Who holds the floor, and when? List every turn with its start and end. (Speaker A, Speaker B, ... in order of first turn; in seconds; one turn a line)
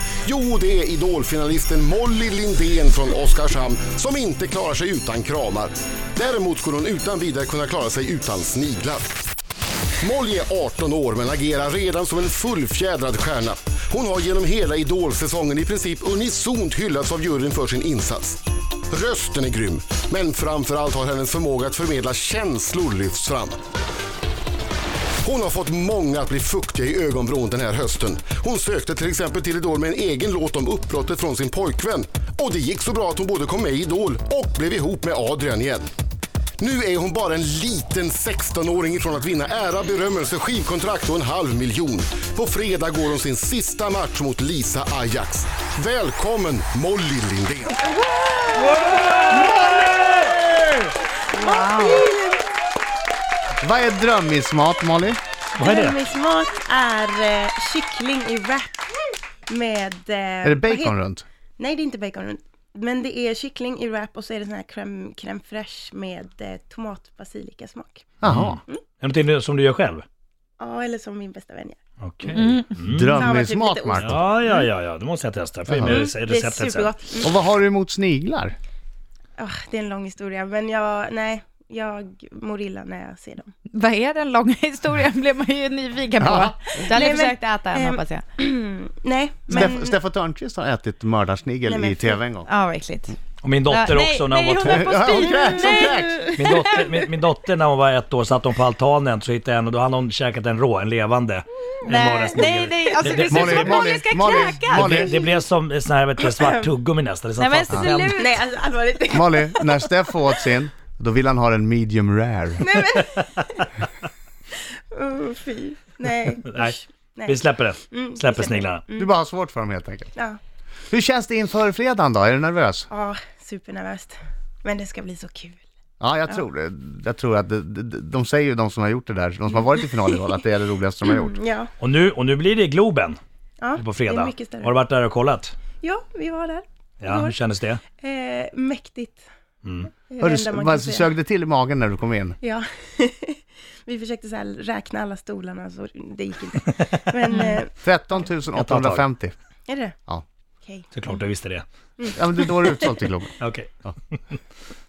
Speaker A: 0.2-9.2
Speaker A: 10.0-23.6
Speaker A: 25.2-35.9
Speaker A: 36.6-47.9
Speaker B: 48.7-49.7
Speaker C: 48.7-50.4
Speaker B: 51.3-52.4
Speaker D: 51.4-52.0
Speaker E: 53.6-55.2
Speaker B: 55.5-61.0
Speaker C: 55.6-56.0
Speaker E: 60.4-61.2
Speaker B: 61.6-68.1
Speaker E: 68.2-68.6
Speaker C: 68.2-70.0
Speaker B: 70.6-72.4
Speaker C: 72.0-73.2
Speaker D: 72.3-72.7
Speaker E: 72.8-74.2
Speaker B: 73.1-74.7
Speaker C: 74.0-76.9
Speaker E: 75.7-76.0
Speaker B: 75.8-77.4
Speaker E: 77.2-78.5
Speaker B: 79.4-83.5
Speaker D: 83.7-88.2
Speaker E: 86.2-86.8
Speaker B: 86.8-90.0
Speaker E: 89.5-92.5
Speaker B: 91.7-92.2
Speaker D: 92.4-96.8
Speaker C: 93.4-95.1
Speaker E: 94.6-96.2
Speaker B: 95.2-97.1
Speaker C: 96.3-108.2
Speaker D: 101.8-105.0
Speaker E: 103.3-105.2
Speaker B: 105.0-105.2
Speaker B: 106.2-106.7
Speaker D: 107.4-108.3
Speaker B: 108.2-109.9
Speaker E: 109.1-112.7
Speaker B: 112.6-113.6
Speaker B: 114.5-119.1
Speaker C: 116.5-118.8
Speaker E: 119.0-120.1
Speaker E: 120.9-122.9
Speaker B: 122.9-125.6
Speaker E: 126.0-131.3
Speaker B: 131.1-131.7
Speaker C: 131.8-133.2
Speaker B: 133.6-134.8
Speaker C: 133.8-135.5
Speaker B: 135.8-137.4
Speaker C: 137.0-137.8
Speaker B: 138.0-139.2
Speaker C: 139.6-139.9
Speaker B: 140.1-141.1
Speaker E: 140.2-142.4
Speaker B: 142.4-147.7
Speaker D: 147.3-147.6
Speaker E: 147.8-149.3
Speaker C: 148.6-149.1
Speaker B: 149.7-149.9
Speaker B: 150.6-151.2
Speaker C: 150.9-151.6
Speaker B: 152.0-152.9
Speaker E: 152.2-153.3
Speaker C: 153.4-153.7